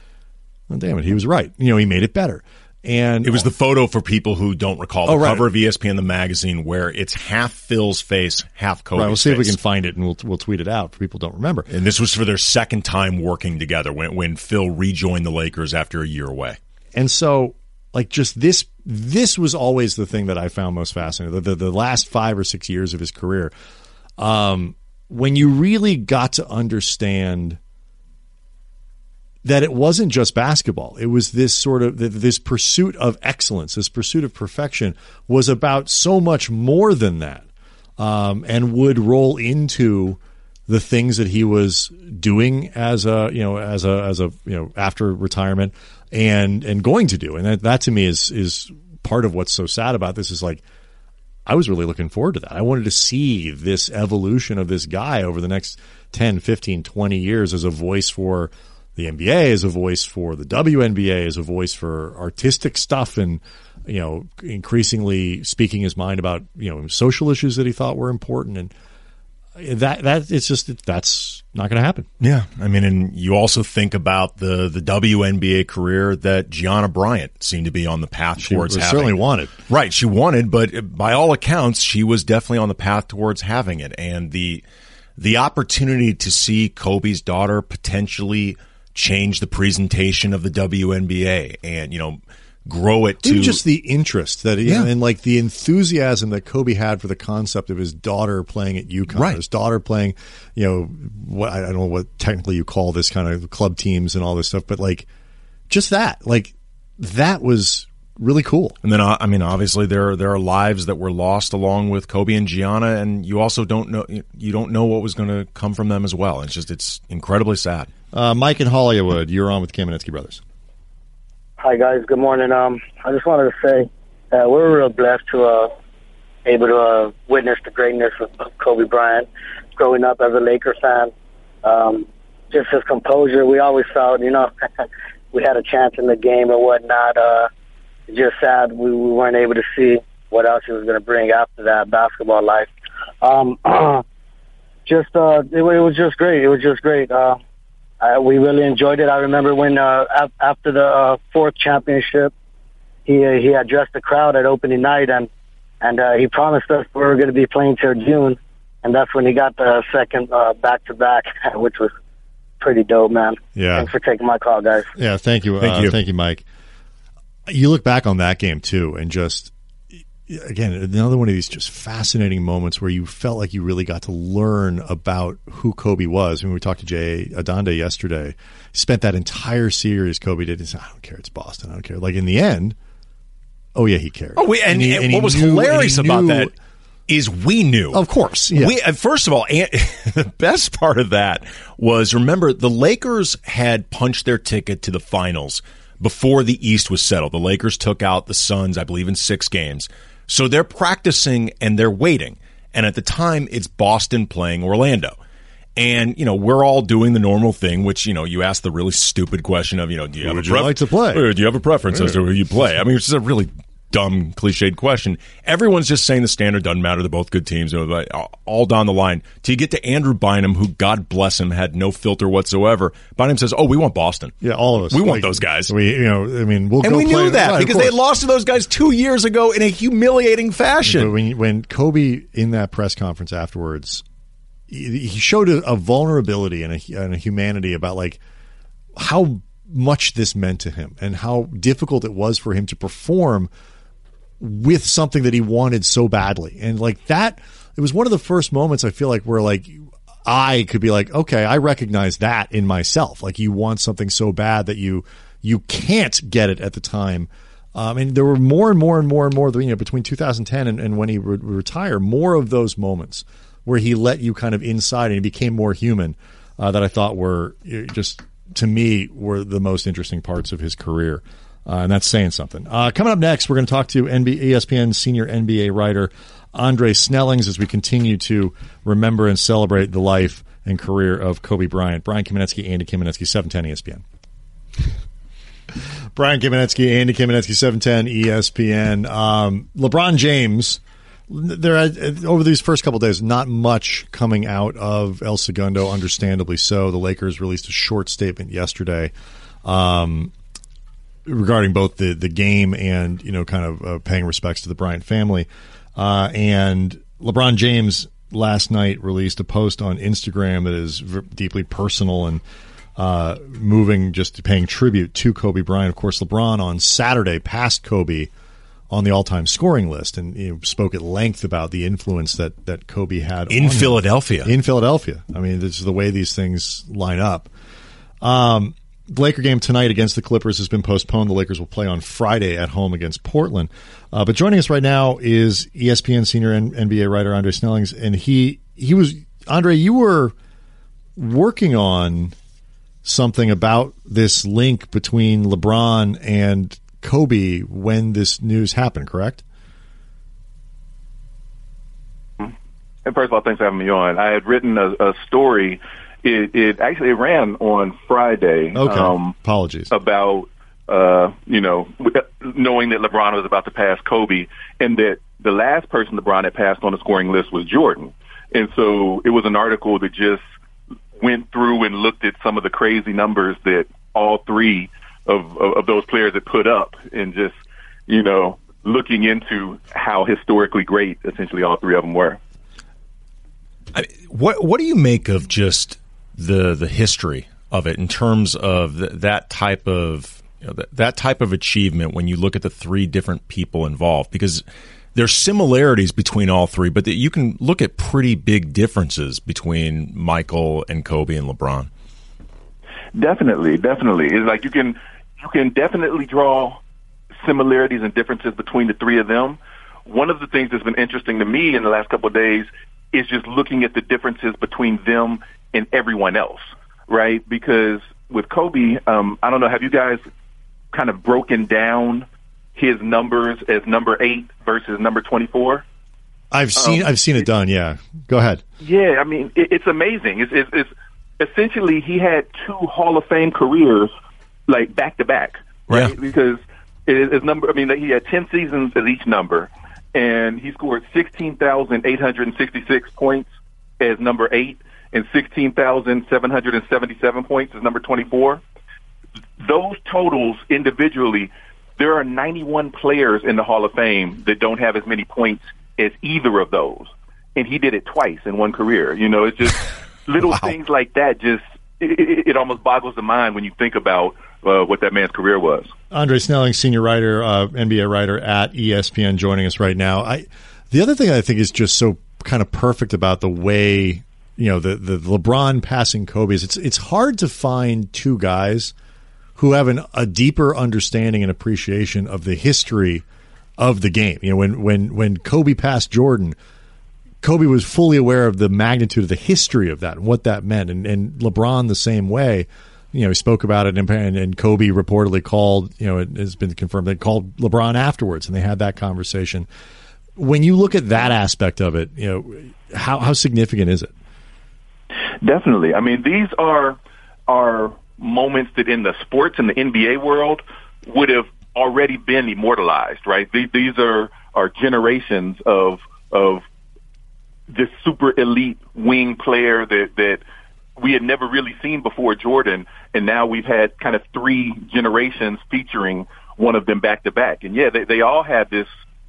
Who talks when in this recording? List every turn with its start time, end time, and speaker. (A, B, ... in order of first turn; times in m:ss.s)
0:00.7-0:03.5 A
0:03.2-0:09.6 B
0:05.0-0:05.5 A
0:09.0-0:11.7 A
0:11.7-0:16.6 B
0:17.0-0:23.5 A
0:24.2-0:27.6 A
0:29.4-0:37.5 A
0:38.0-0:50.6 A
0:51.5-1:08.7 A
1:09.6-1:12.1 A
1:12.2-1:19.2 B
1:18.4-1:19.5 A
1:19.7-1:24.6 B
1:25.2-1:33.6 B
1:33.2-1:45.1 A
1:39.1-1:39.4 B
1:45.7-1:48.8 A
1:48.8-1:57.9 B
1:58.1-2:00.4 A
2:01.6-2:05.7 C
2:06.4-2:11.1 C
2:11.6-2:14.5 C
2:15.3-2:17.5 C
2:18.1-2:22.7 C
2:23.2-2:24.0 C
2:24.9-2:27.4 C
2:28.0-2:32.3 C
2:33.1-2:35.3 C
2:35.8-2:41.9 C
2:42.6-2:44.9 C
2:43.6-2:43.9 A
2:45.0-2:46.4 A
2:45.6-2:46.0 B
2:47.5-2:49.5 A
2:50.3-3:02.8 A
3:03.8-3:06.5 A
3:04.4-3:06.5 B
3:07.1-3:25.2 B
3:07.9-3:08.8 A
3:25.8-3:44.4 B
3:30.2-3:31.3 A
3:44.4-3:48.0 A
3:44.9-3:45.7 B
3:46.8-3:51.1 B
3:50.8-3:54.0 A
3:54.7-3:58.2 A
3:59.0-4:03.5 A
4:04.4-4:44.0 A
4:46.2-4:59.1 A
4:59.6-5:00.3 A
5:01.3-5:12.4 A
5:13.0-5:18.3 A
5:18.9-5:27.5 A
5:23.5-5:24.5 B
5:28.2-5:40.3 A
5:41.2-5:42.4 A
5:43.0-5:49.4 A
5:53.0-5:59.3 D
5:58.8-5:59.9 A
5:59.9-6:10.4 D
6:11.2-6:22.4 D
6:23.9-6:34.6 B
6:35.2-6:41.9 B
6:43.2-6:46.8 D
6:47.4-7:00.2 D
7:00.9-7:05.8 D
7:06.5-7:08.6 A
7:06.8-7:07.0 D
7:08.8-7:14.1 D
7:14.7-7:23.5 D
7:24.0-7:28.6 D
7:29.6-7:45.9 D
7:46.1-7:58.9 A
7:59.6-8:03.2 A
8:03.8-8:06.6 A
8:07.4-8:19.7 A
8:20.4-8:24.1 A
8:25.4-8:36.6 D
8:37.7-8:40.4 D
8:41.0-8:48.9 D